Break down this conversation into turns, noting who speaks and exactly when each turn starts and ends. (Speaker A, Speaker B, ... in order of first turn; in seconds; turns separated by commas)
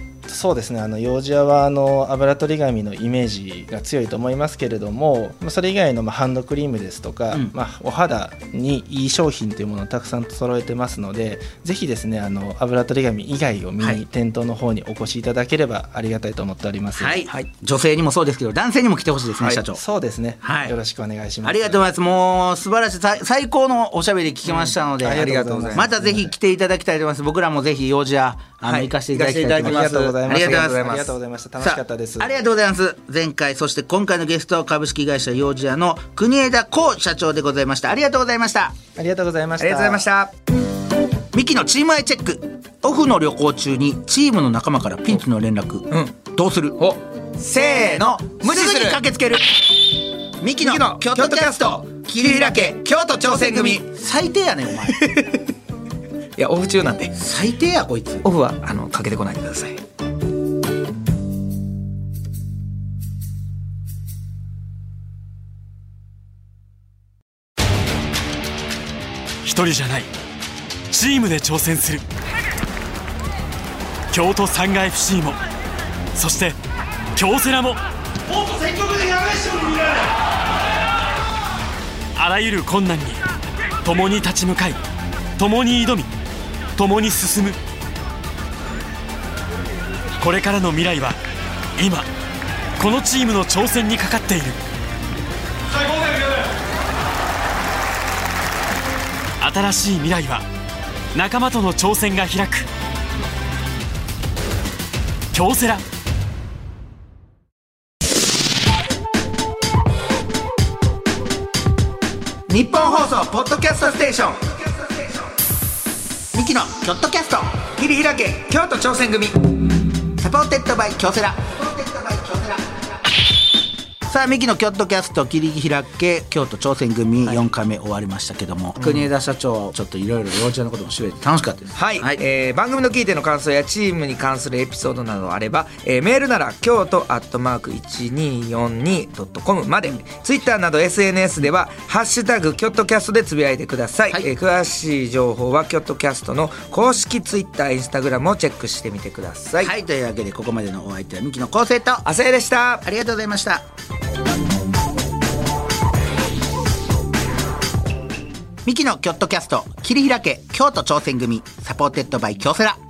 Speaker A: 0.3-17.2, Speaker B: 16.9-19.8, Speaker A: 19.7-21.9, Speaker B: 20.4-20.8, Speaker B: 21.4-31.1, Speaker C: 24.4-25.9, Speaker A: 25.0-26.3, Speaker C: 28.6-31.1, Speaker A: 29.6-32.3, Speaker B: 31.6-38.8, Speaker A: 39.0-40.0, Speaker C: 39.6-40.3, Speaker B: 41.3-49.5, Speaker C: 46.8-49.0, Speaker B: 50.4-55.0, Speaker C: 50.6-53.8, Speaker C: 54.9-55.4, Speaker C: 56.4-57.1, Speaker B: 57.1-58.2, Speaker C: 58.2-59.8, Speaker D: 69.4-70.1, Speaker D: 70.9-72.0, Speaker D: 74.1-75.4, Speaker D: 76.1-76.6, Speaker D: 77.1-77.8, Speaker D: 78.3-80.0, Speaker D: 82.2-83.2, Speaker D: 83.8-84.8, Speaker D: 85.4-86.1, Speaker D: 86.8-87.6, Speaker D: 90.2-91.2, Speaker D: 91.8-92.1, Speaker D: 92.8-94.6, Speaker D: 95.8-96.4, Speaker D: 99.4-100.4, Speaker D: 101.1-102.7, Speaker D: 105.3-105.8, Speaker B: 112.5-115.1, Speaker C: 113.2-114.5, Speaker B: 116.3-117.7, Speaker C: 117.8-119.4, Speaker B: 120.2-122.7, Speaker B: 124.1-132.2, Speaker C: 128.8-129.1, Speaker C: 131.8-149.7, Speaker B: 149.6-152.1, Speaker C: 152.1-152.8, Speaker B: 152.8-153.7, Speaker B: 158.6-162.8